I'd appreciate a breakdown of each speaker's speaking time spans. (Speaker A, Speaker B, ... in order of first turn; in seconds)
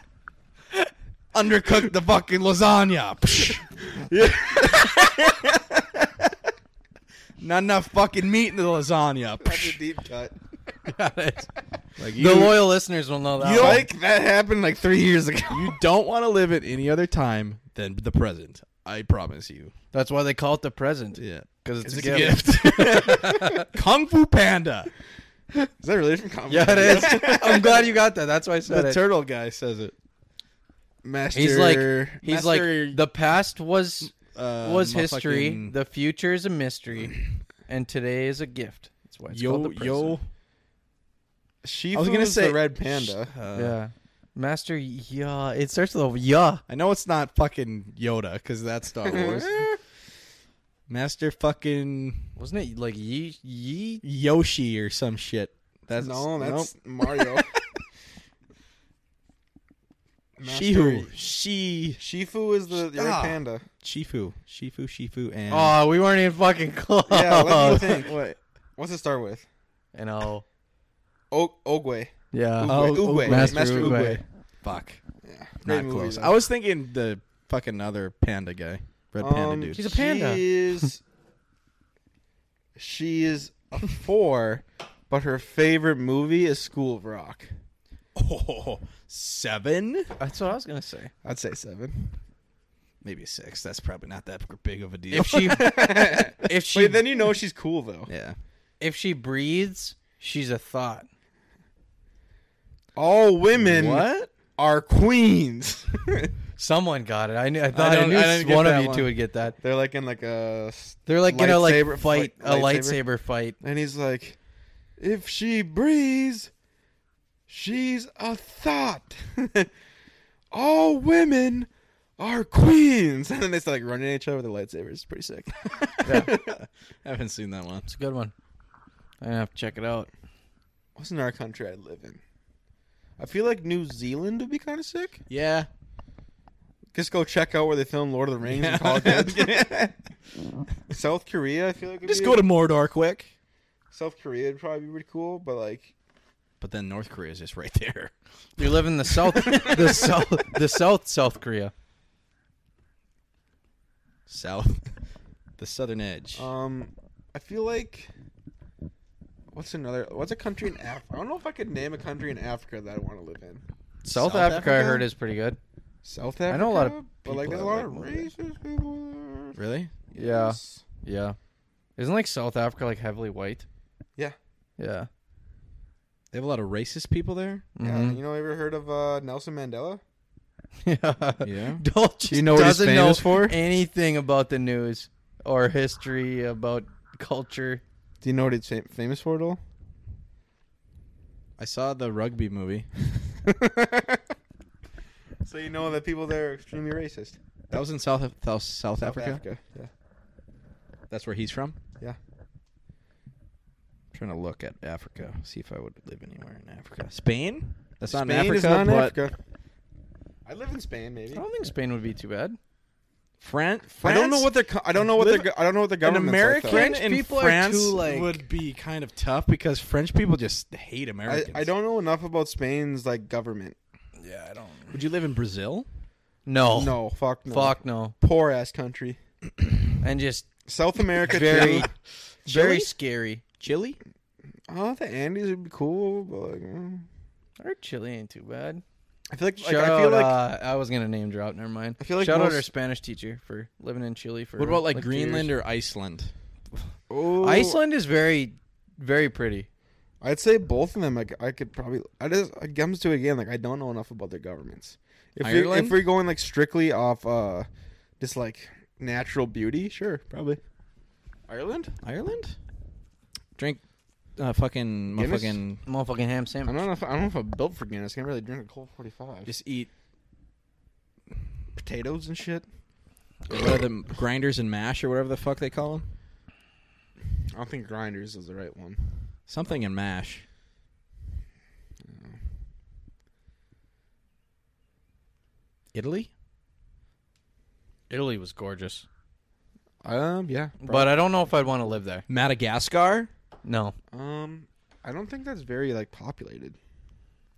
Speaker A: 1.3-3.6, 7.4-9.8, 12.0-12.7, 13.4-13.9, 15.5-19.7, 21.2-24.9, 28.6-29.9, 32.2-33.0, 34.0-35.7, 39.3-40.3, 41.9-43.8, 46.7-49.7, 50.9-52.3, 54.0-57.6, 60.4-62.0, 62.7-65.8, 67.6-68.4, 72.6-75.0, 75.6-79.8, 88.1-90.1, 93.0-95.7, 98.1-98.4, 103.6-104.3, 107.7-109.1, 125.8-127.9, 135.3-135.7, 138.4-139.8, 142.0-143.3, 146.6-148.7, 149.3-150.0, 154.3-154.9, 155.6-156.5, 164.1-165.0, 169.5-169.9, 176.3-177.7, 181.4-181.8, 191.6-193.1, 197.7-199.4, 201.1-201.8, 204.1-209.2, 213.4-221.7, 224.9-225.9, 231.4-231.9, 232.5-232.9, 233.6-234.0, 244.6-246.3, 255.4-256.0, 262.0-262.6, 264.4-265.8, 269.4-269.9, 273.5-276.1, 279.5-280.4, 285.9-286.3, 292.3-293.3
Speaker B: 3.9-6.1, 9.4-10.3, 13.5-15.8, 22.9-23.5, 25.6-27.9, 31.0-32.2, 41.6-43.3, 49.0-49.8, 56.0-57.5, 60.4-61.1, 62.0-63.6, 67.1-68.2, 68.8-69.5, 71.3-74.2, 75.2-76.4, 79.2-81.0, 82.8-87.5, 91.2-92.2, 95.2-98.1, 103.0-106.3, 109.6-113.0, 113.6-114.4, 115.0-116.5, 117.5-119.7, 120.5-126.6, 130.9-132.2, 133.2-135.2, 136.9-139.9, 140.9-142.4, 143.9-145.9, 149.4-150.1, 156.3-158.1, 159.5-163.6, 166.0-169.6, 170.1-170.8, 177.8-180.0, 182.3-183.6, 188.2-189.6, 193.4-194.2, 195.4-197.4, 199.0-199.9, 208.1-209.3, 210.4-211.4, 214.0-216.9, 221.2-223.8, 226.7-229.2, 230.7-231.9, 234.7-237.1, 239.3-240.4, 242.0-242.7, 247.1-247.8, 250.2-257.7, 258.2-260.6, 261.5-261.9, 265.1-265.6, 266.6-269.5, 271.8-272.7, 277.5-279.1, 282.1-282.4, 290.0-291.1, 294.1-296.8
Speaker C: 10.9-11.5, 12.1-13.8, 19.9-23.7, 26.5-29.0, 31.3-40.2, 43.5-46.6, 52.4-54.0, 65.5-68.0, 69.9-70.4, 72.3-74.2, 79.8-80.8, 90.2-91.1, 95.1-97.0, 98.8-101.0, 106.6-109.5, 111.0-113.5, 126.0-126.3, 127.8-128.3, 129.2-130.1, 148.6-151.7, 164.0-165.6, 166.5-168.3, 170.1-171.4, 172.0-173.7, 174.8-175.1, 177.8-178.2, 180.8-187.8, 211.3-212.6, 216.7-218.4, 224.2-224.9, 226.4-228.1, 230.0-230.5, 231.2-231.9, 232.5-233.4, 237.6-238.8, 239.6-245.5, 247.4-249.7, 265.8-266.8, 288.1-289.1, 290.8-292.2, 293.6-293.9